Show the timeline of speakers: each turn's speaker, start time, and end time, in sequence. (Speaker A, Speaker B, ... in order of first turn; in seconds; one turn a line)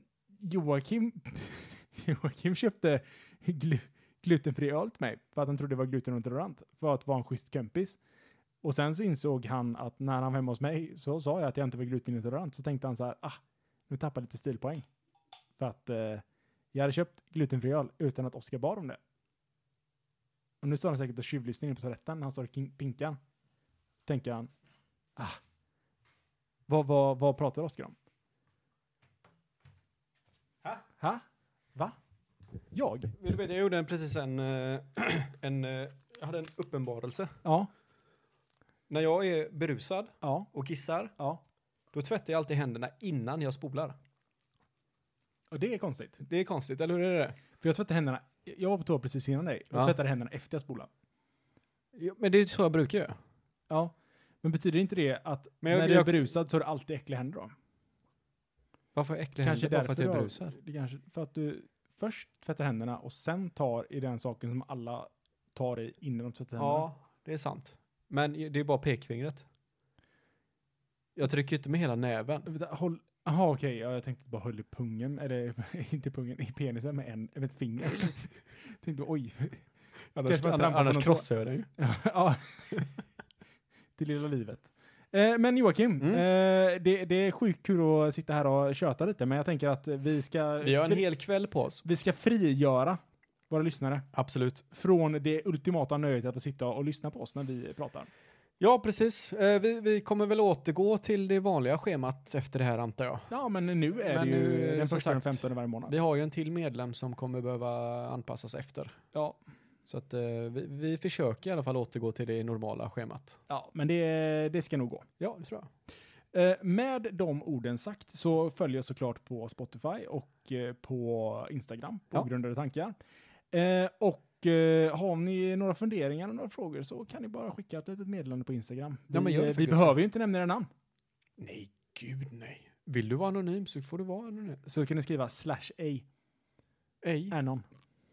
Speaker A: 0.4-8.0
Speaker A: 8.6-14.8
Speaker A: 15.6-19.0
Speaker A: 20.6-23.2
Speaker A: 24.1-24.5
Speaker A: 26.7-27.9
Speaker A: 32.7-33.1
Speaker B: 33.2-37.4
Speaker A: 37.4-37.7
Speaker B: 38.9-41.1
Speaker A: 40.2-40.5
Speaker B: 41.9-44.0
Speaker A: 45.5-46.2
Speaker B: 46.3-47.4
Speaker A: 47.6-50.9
Speaker B: 51.9-53.2
Speaker A: 53.7-57.5
Speaker B: 55.6-56.1
Speaker B: 58.9-60.5
Speaker A: 59.4-66.9
Speaker B: 66.6-69.5
Speaker B: 71.2-72.5
Speaker A: 72.5-79.7
Speaker B: 80.1-81.7
Speaker A: 80.2-82.9
Speaker A: 84.0-91.0
Speaker B: 86.0-86.2
Speaker B: 90.6-91.8
Speaker A: 91.8-94.1
Speaker B: 94.1-94.6
Speaker A: 94.7-98.1
Speaker B: 98.6-103.3
Speaker A: 103.3-105.9
Speaker B: 104.0-109.0
Speaker B: 109.8-113.4
Speaker A: 113.5-115.1
Speaker B: 115.2-115.7
Speaker A: 116.3-123.0
Speaker A: 123.5-130.7
Speaker B: 129.1-130.0
Speaker B: 131.4-134.6
Speaker A: 134.7-136.1
Speaker B: 137.0-137.3
Speaker A: 137.3-137.6